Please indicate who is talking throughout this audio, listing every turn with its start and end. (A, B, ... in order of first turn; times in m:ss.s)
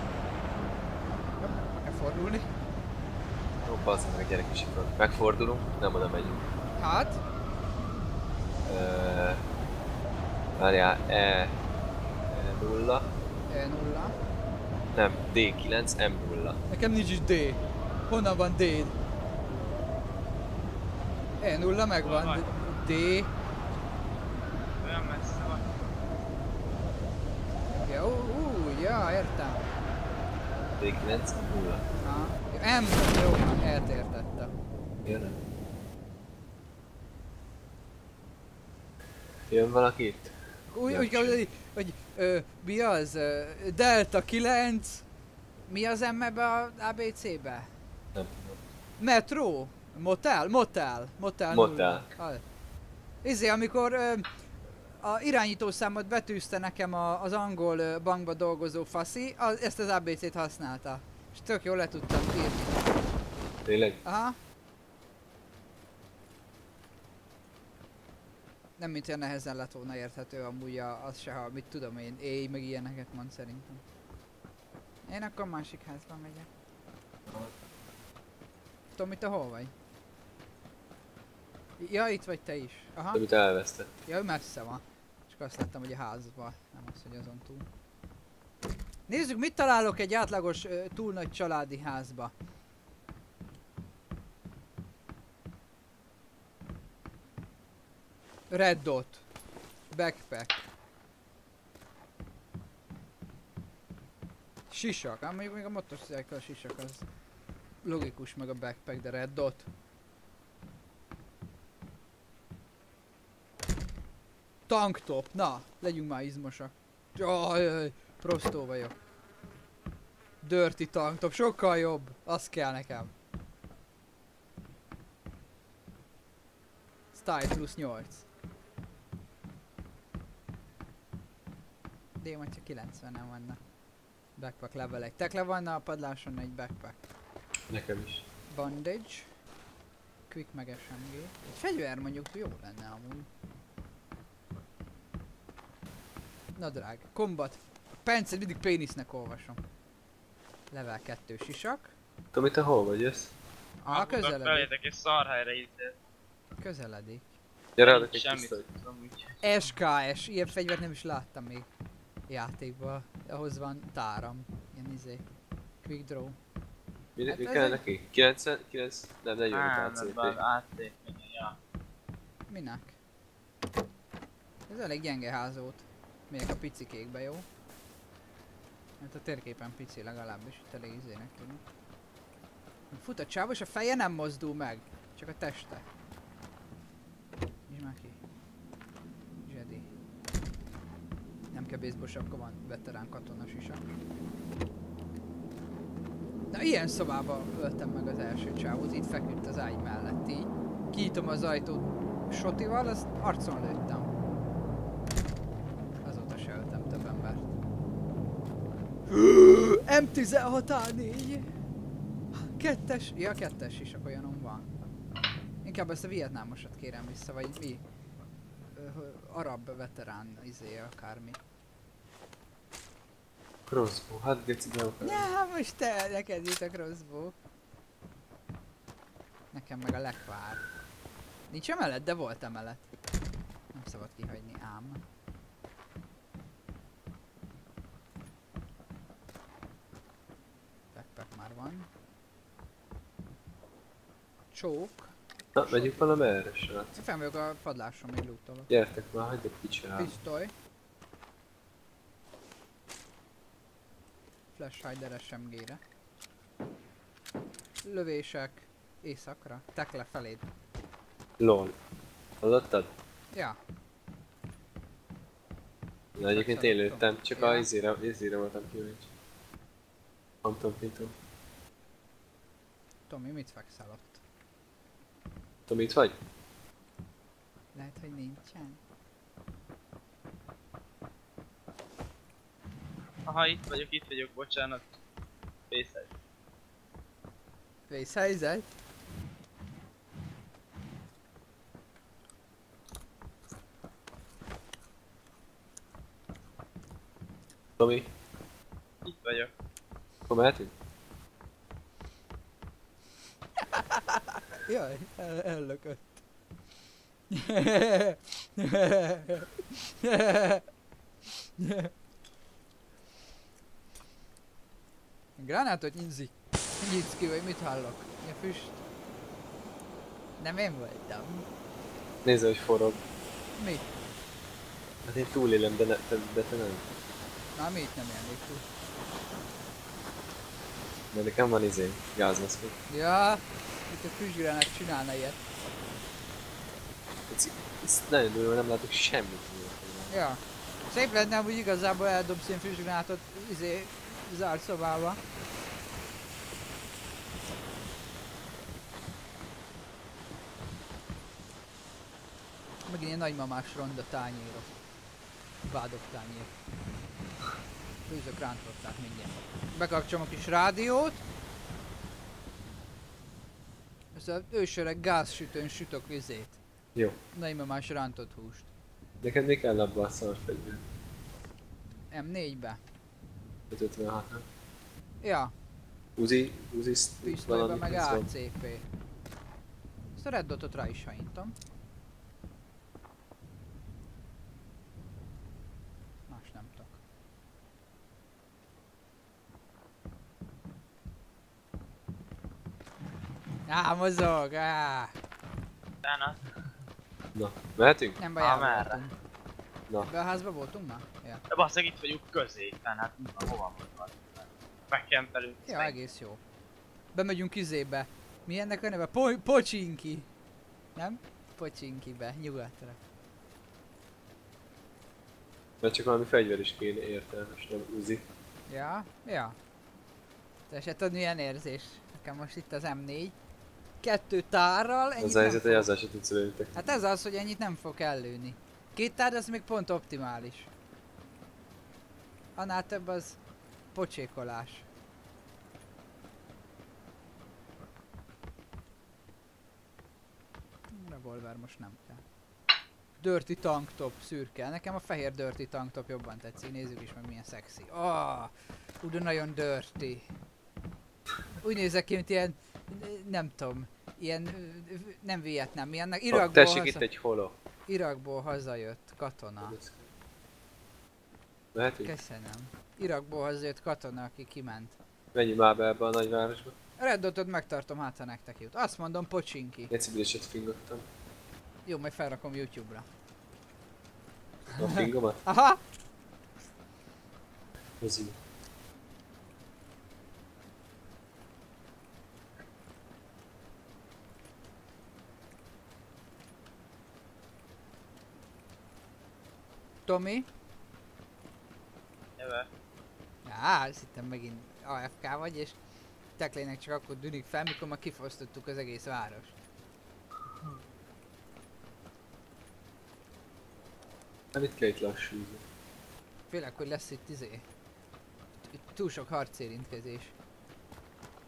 0:01.4-0:02.5 A
0:03.6-0:06.5 B
0:06.8-0:07.2 A
0:08.6-0:09.4 B
0:10.6-0:11.5 B
0:12.3-0:13.1 B
0:13.5-0:14.2 A
0:14.9-0:16.6 B
0:16.7-0:19.0 A
0:21.4-0:23.3 A
0:22.0-0:22.4 C
0:24.8-0:25.8 C
0:27.8-0:29.7 A
0:30.5-0:31.8 B
0:32.0-0:34.5 A
0:35.0-0:35.4 B
0:39.5-0:40.3 B
0:40.7-0:45.0 A
0:40.9-0:41.4 B
0:45.7-0:47.7 A
0:48.1-0:48.6 B
0:49.0-0:52.4 A
0:51.5-0:52.1 B
0:53.2-0:54.3 A
0:55.0-1:02.8 A
1:03.6-1:04.0 B
1:04.0-1:04.4 A
1:08.8-1:13.8 A
1:15.0-1:16.5 A
1:19.0-1:19.7 A
1:21.8-1:23.2 A
1:23.1-1:23.9 B
1:24.0-1:27.7 A
1:29.1-1:32.3 A
1:38.5-1:39.2 A
1:39.9-1:40.6 A
1:44.7-1:47.0 A
1:47.8-1:49.7 A
1:54.7-1:59.0 A
2:00.4-2:03.1 A
2:07.1-2:08.2 A
2:12.2-2:13.6 A
2:14.4-2:17.0 A
2:17.7-2:18.2 B
2:18.5-2:19.3 A
2:20.3-2:23.3 A
2:26.6-2:29.6 A
2:30.7-2:31.9 A
2:32.3-2:33.3 B
2:33.8-2:34.7 A
2:33.9-2:36.0 C
2:36.6-2:37.3 A
2:37.8-2:38.6 B
2:37.8-2:39.4 C
2:39.4-2:41.7 A
2:42.3-2:45.2 A
2:45.8-2:46.4 A
2:47.2-2:50.4 B
2:47.3-2:47.8 A
2:49.5-2:51.6 C
2:52.5-2:53.0 A
2:54.7-2:57.5 A
2:59.0-3:01.6 A
3:02.9-3:05.8 A
3:07.7-3:08.2 A
3:09.4-3:09.9 A
3:11.5-3:13.8 A
3:16.5-3:24.1 A
3:26.0-3:27.5 A
3:29.1-3:31.5 A
3:32.3-3:34.7 A
3:35.6-3:37.8 A
3:38.7-3:41.4 A
3:43.7-3:45.3 B
3:45.0-3:47.3 A
3:49.5-3:50.6 A
3:51.5-3:52.8 A
3:53.7-3:55.0 A
4:00.9-4:01.9 A
4:04.5-4:05.1 A
4:05.5-4:06.9 B
4:05.7-4:06.0 A
4:06.9-4:08.7 A
4:08.7-4:10.1 B
4:10.0-4:10.5 A
4:14.5-4:15.8 A
4:17.8-4:20.4 A
4:21.4-4:21.8 B
4:22.4-4:22.9 B
4:23.3-4:23.6 A
4:26.2-4:29.1 B
4:26.3-4:27.7 A
4:30.4-4:31.1 B
4:33.1-4:34.2 A
4:35.7-4:36.2 B
4:37.7-4:38.8 A
4:43.2-4:44.9 C
4:45.7-4:46.1 C
4:47.9-4:48.7 A
4:57.8-4:58.1 B
4:59.0-4:59.5 C
5:00.3-5:00.7 B
5:03.7-5:06.2 A
5:07.3-5:10.6 A
5:11.6-5:11.9 A
5:15.4-5:18.8 A
5:20.4-5:21.5 A
5:22.2-5:23.0 B
5:23.6-5:23.9 A
5:25.0-5:26.9 B
5:27.6-5:28.6 A
5:31.1-5:32.8 B
5:32.9-5:35.4 A
5:37.3-5:40.1 B
5:40.1-5:45.2 A
5:52.9-5:54.7 A
5:55.6-5:56.5 A
5:58.1-6:01.2 A
6:04.1-6:06.6 A
6:07.3-6:08.7 A
6:09.2-6:10.8 B
6:12.1-6:12.8 A
6:13.7-6:14.4 B
6:15.2-6:15.5 A
6:16.2-6:18.3 B
6:17.2-6:18.8 A
6:20.2-6:21.5 A
6:26.3-6:27.0 A
6:33.7-6:35.1 A
6:36.0-6:36.4 C
6:37.3-6:38.2 B
6:38.2-6:39.2 A
6:38.4-6:39.0 C
6:40.0-6:41.4 A
6:41.5-6:46.0 C
6:45.6-6:46.4 A
6:47.1-6:50.3 A
6:51.0-6:53.0 A
6:55.8-6:58.2 B
6:58.7-6:59.6 A
7:00.7-7:03.4 A
7:04.0-7:05.9 A
7:05.2-7:06.7 B
7:06.7-7:10.7 A
7:12.6-7:13.4 A
7:13.9-7:14.9 A
7:20.9-7:22.2 A
7:23.2-7:30.3 A
7:31.6-7:37.0 A
7:36.3-7:37.5 B
7:37.9-7:39.8 A
7:39.6-7:40.1 B
7:41.7-7:42.1 B
7:42.0-7:45.0 A
7:45.3-7:46.8 B
7:47.0-7:49.9 A
7:49.9-7:51.0 B
7:51.8-7:53.0 A
7:54.7-7:55.4 B
7:54.7-7:55.8 A
7:58.0-7:58.4 B
8:10.0-8:10.5 A
8:12.4-8:12.7 C
8:13.4-8:15.8 A
8:16.4-8:19.5 A
8:24.5-8:25.6 B
8:26.5-8:27.6 A
8:28.7-8:30.3 A